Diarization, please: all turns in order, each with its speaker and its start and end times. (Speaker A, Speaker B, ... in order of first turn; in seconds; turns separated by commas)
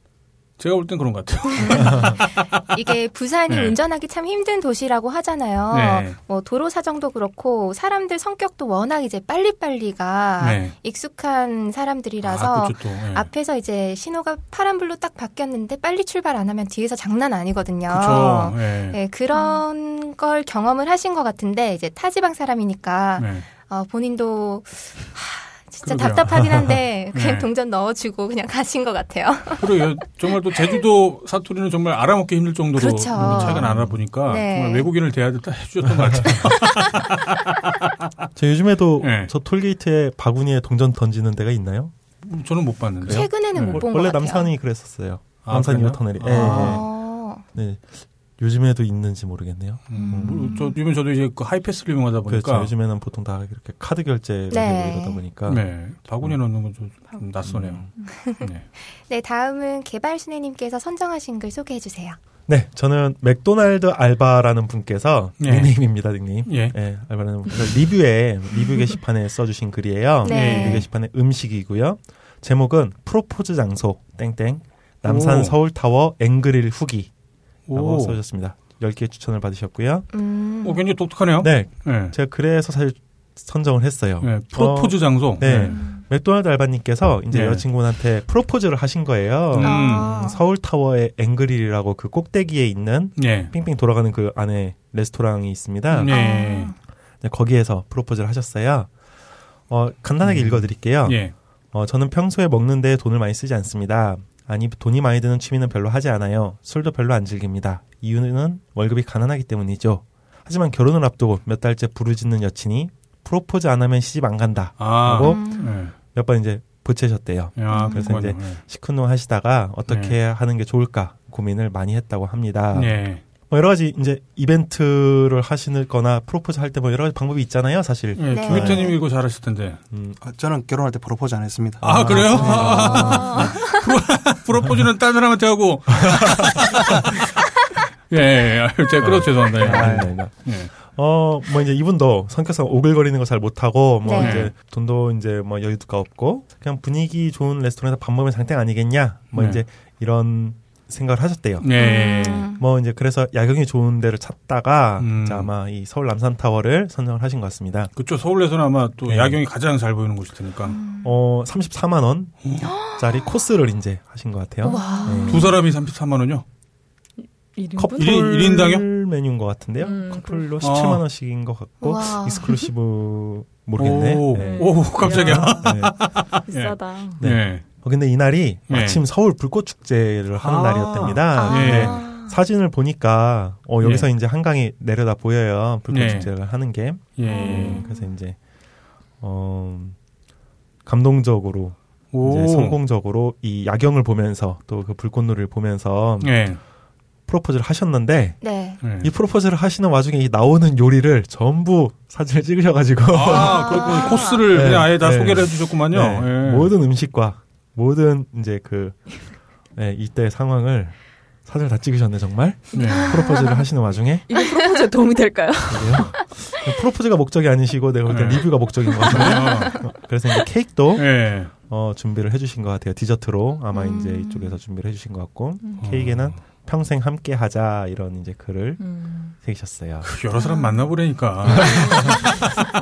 Speaker A: 0.6-2.3, Speaker B: 1.6-29.9, Speaker A: 3.5-3.8, Speaker A: 5.7-6.2, Speaker A: 10.4-10.7, Speaker A: 12.2-13.3, Speaker A: 17.9-19.0, Speaker A: 23.2-23.5, Speaker A: 25.8-27.5, Speaker A: 29.6-38.3, Speaker B: 32.8-33.7, Speaker C: 33.2-34.0, Speaker B: 34.3-34.9, Speaker C: 36.0-36.4, Speaker C: 38.4-41.9, Speaker A: 39.0-39.3, Speaker A: 42.2-43.8, Speaker C: 43.0-46.9, Speaker B: 43.1-44.5, Speaker A: 45.5-46.9, Speaker B: 46.3-47.4, Speaker C: 47.5-50.6, Speaker A: 49.9-52.7, Speaker B: 50.0-50.8, Speaker C: 52.3-55.6, Speaker B: 54.5-55.2, Speaker A: 55.5-58.7, Speaker C: 57.5-57.8, Speaker B: 58.1-62.2, Speaker C: 62.5-77.1, Speaker A: 65.4-65.7, Speaker A: 66.5-66.8, Speaker B: 70.2-70.9, Speaker A: 70.2-70.8, Speaker A: 75.0-75.6, Speaker A: 77.7-78.2, Speaker C: 77.7-80.1, Speaker B: 80.1-80.8, Speaker A: 80.6-82.2, Speaker C: 81.4-96.1, Speaker A: 84.2-85.8, Speaker B: 85.7-86.0, Speaker A: 87.3-87.6, Speaker A: 89.5-90.1, Speaker B: 89.6-90.4, Speaker A: 93.2-93.5, Speaker A: 95.9-96.7, Speaker B: 96.1-96.8, Speaker C: 97.2-98.9, Speaker C: 99.7-128.9, Speaker A: 100.2-101.3, Speaker A: 114.8-115.9, Speaker B: 115.2-115.7, Speaker A: 117.6-118.6, Speaker B: 117.7-118.1, Speaker A: 119.9-120.2, Speaker A: 122.7-123.2, Speaker A: 128.2-129.8, Speaker B: 128.3-129.0, Speaker C: 129.9-130.2, Speaker D: 130.2-133.3, Speaker C: 131.8-133.4, Speaker A: 131.8-137.3, Speaker B: 132.8-133.8, Speaker C: 136.1-136.7, Speaker A: 138.1-140.7, Speaker C: 139.0-151.7, Speaker D: 139.6-140.1, Speaker B: 144.1-144.5, Speaker A: 144.2-144.5, Speaker A: 149.3-149.6, Speaker A: 151.6-152.5, Speaker B: 151.8-152.6, Speaker C: 152.6-157.9, Speaker A: 155.0-155.5, Speaker A: 158.0-160.8, Speaker C: 159.1-159.4, Speaker B: 160.7-161.2, Speaker C: 161.0-165.5, Speaker A: 162.4-162.7, Speaker B: 162.6-163.4, Speaker B: 164.6-165.6, Speaker E: 164.7-165.3, Speaker A: 165.3-166.4, Speaker E: 167.6-168.2, Speaker C: 167.8-176.0, Speaker A: 168.0-168.9, Speaker E: 169.8-170.5, Speaker A: 170.6-171.0, Speaker B: 171.8-172.6, Speaker A: 173.8-177.7, Speaker E: 174.3-177.2, Speaker C: 177.2-188.4, Speaker A: 178.7-179.0, Speaker A: 180.3-182.0, Speaker B: 181.4-182.3, Speaker A: 183.8-184.1, Speaker A: 185.9-186.3, Speaker A: 187.2-187.8, Speaker B: 187.3-188.1, Speaker C: 189.2-190.0, Speaker C: 190.9-196.5, Speaker A: 192.1-192.8, Speaker A: 196.2-196.6, Speaker C: 197.3-209.2, Speaker B: 198.4-198.8, Speaker A: 198.8-199.1, Speaker A: 203.1-206.8, Speaker B: 203.3-204.4, Speaker C: 209.8-214.3, Speaker A: 212.7-213.2, Speaker B: 212.8-213.7, Speaker E: 214.3-216.3, Speaker B: 214.3-214.7, Speaker C: 215.7-230.1, Speaker A: 218.1-218.5, Speaker A: 219.1-219.8, Speaker E: 219.1-219.5, Speaker A: 220.9-221.5, Speaker B: 223.7-224.6, Speaker A: 225.8-226.4, Speaker E: 228.8-229.3, Speaker A: 230.0-232.4, Speaker E: 231.6-232.5, Speaker C: 231.8-232.1